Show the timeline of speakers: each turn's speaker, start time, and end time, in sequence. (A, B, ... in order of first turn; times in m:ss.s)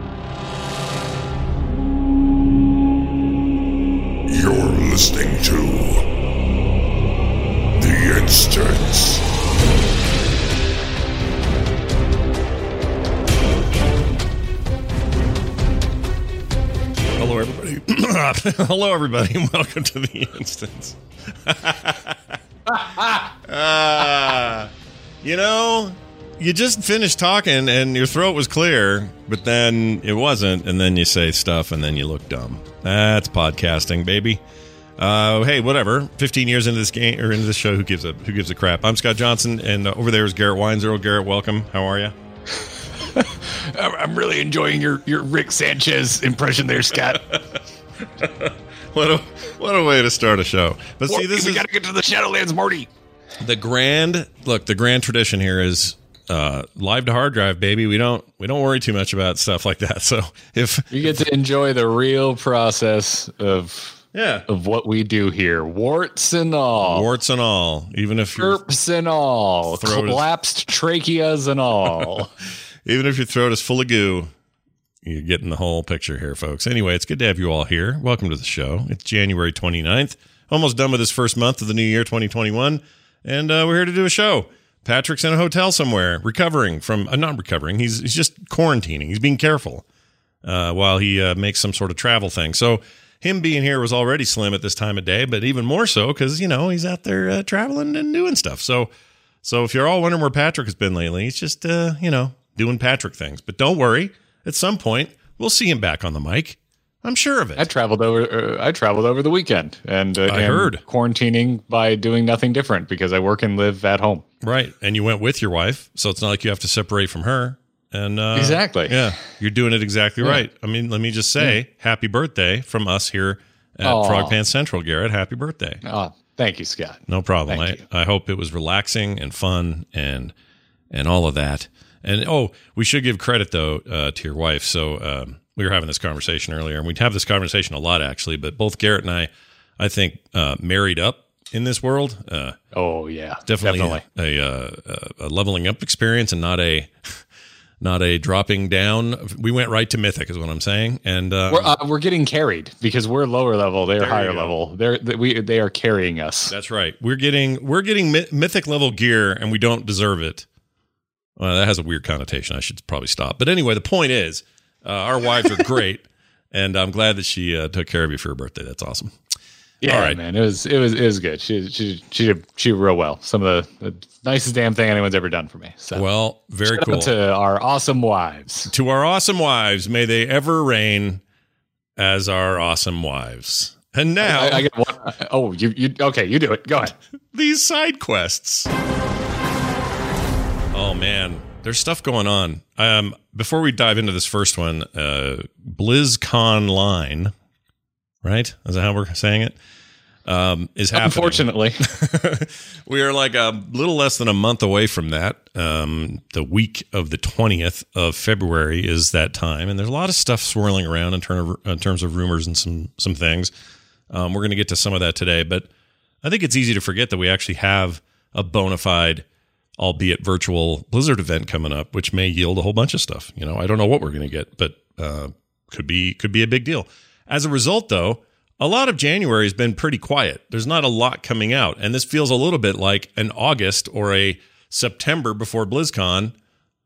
0:04.3-0:06.1 A
0:07.8-0:09.2 A
0:17.2-0:22.4 B
0:23.2-0:24.7 B
0:25.2-0:34.4 B
0:35.0-0:42.2 B
0:43.2-0:47.3 C
0:47.1-0:47.6 B
0:48.2-0:51.7 B
0:51.1-0:52.9 C
0:53.4-1:01.2 B
1:00.9-1:07.1 C
1:04.1-1:04.5 B
1:06.8-1:08.6 B
1:08.4-1:12.3 C
1:09.7-1:10.2 B
1:12.8-1:14.3 B
1:15.0-1:29.8 B
1:30.4-1:38.9 B
1:39.4-1:47.7 B
1:47.6-1:54.2 C
1:50.3-1:50.8 B
1:54.4-2:05.8 B
1:58.4-1:59.0 C
2:03.8-2:04.4 C
2:05.8-2:07.8 C
2:07.1-2:10.3 B
2:10.9-2:22.6 B
2:22.7-2:24.0 C
2:23.5-2:27.2 B
2:27.8-2:31.8 B
2:31.5-2:36.5 C
2:34.0-2:34.5 B
2:36.5-2:40.5 B
2:41.4-2:49.2 B
2:49.8-2:56.0 C
2:49.8-2:50.2 B
2:55.9-2:57.1 B
2:56.7-2:58.7 C
2:58.7-3:01.2 B
3:02.0-3:04.7 B
3:04.2-3:07.0 C
3:07.3-3:08.7 B
3:10.7-3:17.3 B
3:18.2-3:19.6 B
3:20.3-3:33.5 B
3:20.9-3:21.8 C
3:34.1-3:35.7 B
3:36.2-3:39.2 B
3:39.8-3:56.4 B